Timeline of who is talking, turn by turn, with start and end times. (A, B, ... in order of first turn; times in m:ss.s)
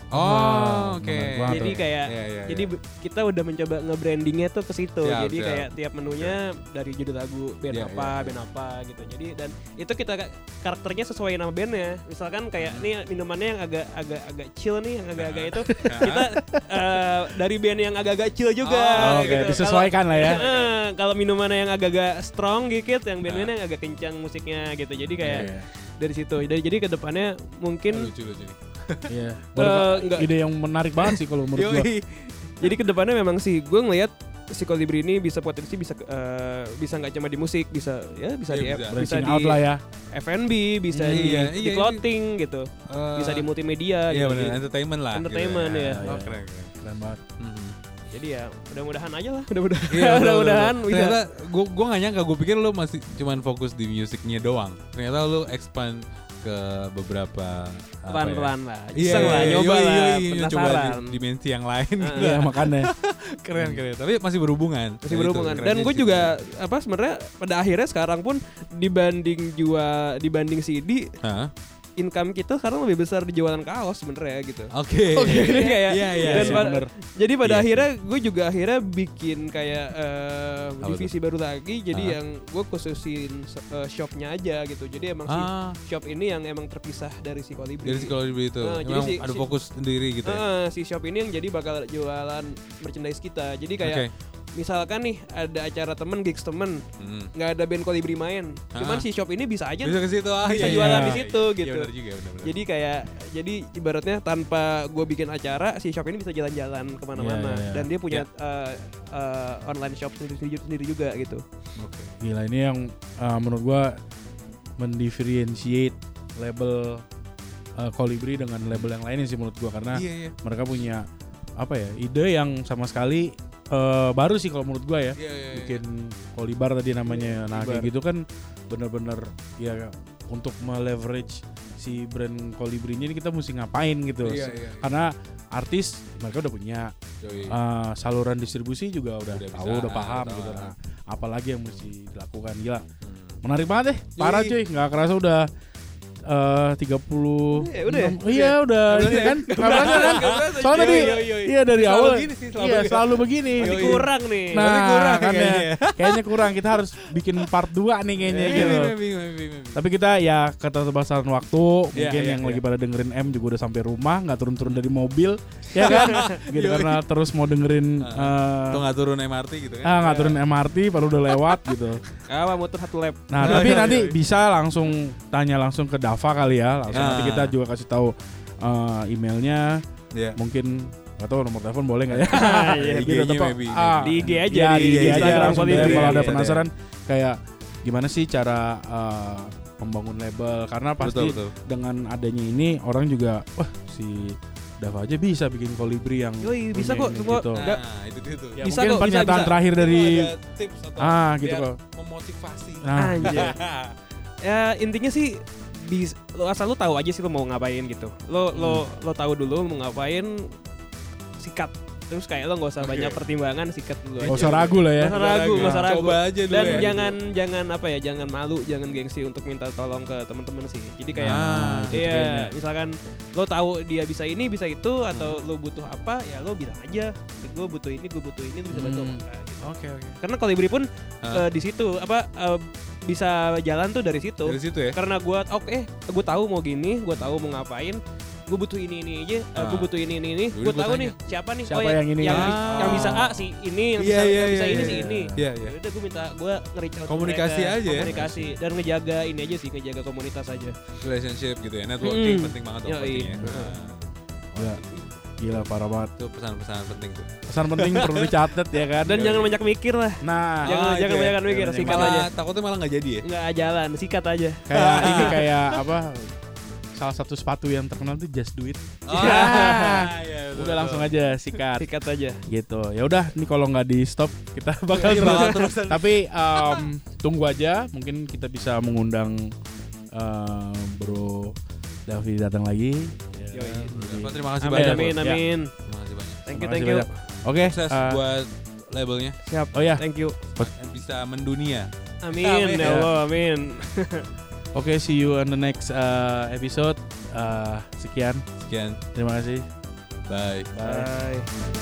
0:00.1-0:02.7 A
0:00.1-0:01.8 B
0:01.5-0:28.1 C
0:05.0-0:06.4 A
0:07.7-0:08.4 A
0:12.6-0:12.9 A
0:15.2-0:16.2 A
0:15.8-0:16.6 B
0:18.6-0:20.7 A
0:19.0-0:20.4 B
0:23.2-0:23.5 A
0:25.0-0:25.5 A
0:25.2-0:25.7 B
0:27.9-0:29.2 A
0:29.1-0:31.9 B
0:29.6-0:30.3 C
0:31.5-0:32.8 A
0:32.6-0:39.6 C
0:38.5-0:39.0 A
0:38.9-0:39.8 B
0:40.1-0:46.0 C
0:40.9-0:41.5 B
0:41.1-0:42.0 A
0:42.9-0:43.5 A
0:44.1-0:46.8 A
0:46.0-0:47.2 B
0:47.4-0:47.8 A
0:48.1-0:51.2 C
0:49.9-1:06.3 A
0:58.1-1:01.1 C
1:02.0-1:02.3 C
1:02.2-1:02.9 B
1:05.0-1:11.1 C
1:11.2-1:11.5 A
1:12.0-1:29.4 C
1:14.7-1:16.7 A
1:16.2-1:16.9 B
1:17.4-1:17.9 A
1:20.8-1:21.1 A
1:21.9-1:22.2 A
1:25.3-1:25.8 A
1:27.8-1:30.4 A
1:30.2-1:36.8 C
1:33.8-1:34.1 A
1:37.0-1:37.3 A
1:37.4-1:41.9 C
1:38.7-1:39.0 A
1:39.8-1:42.6 A
1:40.6-1:41.2 B
1:42.4-1:51.4 C
1:47.2-1:47.9 B
1:51.8-1:52.2 A
1:52.2-1:53.9 B
1:54.8-1:57.0 B
1:57.8-2:01.1 B
1:59.9-2:00.4 A
2:01.6-2:16.9 B
2:05.2-2:05.8 A
2:07.1-2:07.9 A
2:14.2-2:15.0 A
2:17.2-2:17.6 A
2:17.5-2:22.8 B
2:19.3-2:20.7 A
2:23.0-2:23.4 A
2:23.4-2:25.5 B
2:24.2-2:24.6 A
2:26.3-2:39.0 B
2:27.5-2:31.2 C
2:28.9-2:37.5 A
2:33.6-2:34.7 C
2:38.3-2:38.8 C
2:38.5-2:39.8 A
2:39.7-2:48.8 B
2:42.0-2:42.6 A
2:45.8-2:47.0 A
2:45.9-2:46.2 C
2:48.0-2:50.3 A
2:49.8-2:52.0 B
2:50.0-2:50.3 C
2:52.3-2:54.0 C
2:53.3-2:59.8 B
2:53.4-2:54.1 A
2:56.9-2:57.6 A
2:56.9-2:57.2 C
3:00.1-3:00.4 A
3:00.4-3:17.6 B
3:02.2-3:06.6 A
3:02.3-3:03.2 C
3:04.0-3:06.4 C
3:11.0-3:11.5 A
3:16.4-3:17.8 C
3:17.6-3:24.0 A
3:18.6-3:20.3 B
3:18.6-3:19.6 C
3:21.0-3:21.8 B
3:22.8-3:23.6 B
3:23.0-3:23.6 C
3:24.4-3:30.5 C
3:28.6-3:28.8 A
3:31.4-3:49.7 C
3:32.8-3:33.2 A
3:34.2-3:37.2 A
3:34.2-3:35.9 B
3:36.6-3:37.0 B
3:41.2-3:42.5 B
3:41.3-3:42.0 A
3:48.7-3:49.2 B
3:49.6-3:50.2 A
3:50.2-4:10.8 C
3:54.5-3:55.0 A
3:59.6-3:59.9 A
4:00.5-4:01.2 A
4:01.7-4:03.2 B
4:02.3-4:03.3 A
4:04.0-4:05.7 A
4:04.7-4:05.4 B
4:07.1-4:08.5 A
4:08.1-4:08.3 B
4:11.0-4:15.4 A
4:12.0-4:13.8 C
4:13.3-4:13.6 B
4:14.6-4:14.8 B
4:15.4-4:16.1 B
4:16.2-4:18.3 A
4:17.5-4:19.3 B
4:19.0-4:22.3 C
4:19.1-4:19.5 A
4:20.2-4:20.8 B
4:20.6-4:23.2 A
4:21.4-4:22.2 B
4:23.2-4:25.4 C
4:24.7-4:26.4 B
4:24.7-4:25.8 A
4:26.9-4:31.9 B
4:29.1-4:31.2 A
4:29.1-4:30.0 C
4:31.8-4:32.4 C
4:32.4-4:39.5 B
4:35.0-4:36.8 A
4:35.1-4:35.5 C
4:40.1-4:41.6 B
4:42.1-4:45.4 B
4:43.5-4:45.7 C
4:43.7-4:46.4 A
4:46.4-4:47.1 C
4:46.5-4:48.2 B
4:47.5-4:49.4 A
4:49.4-4:50.4 C
4:49.7-4:50.7 B
4:50.6-4:53.1 A
4:52.2-4:54.2 C
4:52.8-4:53.1 B
4:54.7-4:58.5 B
4:58.6-4:59.0 A
4:59.1-4:59.6 B
5:00.3-5:00.7 A
5:00.7-5:01.1 B
5:00.8-5:01.5 C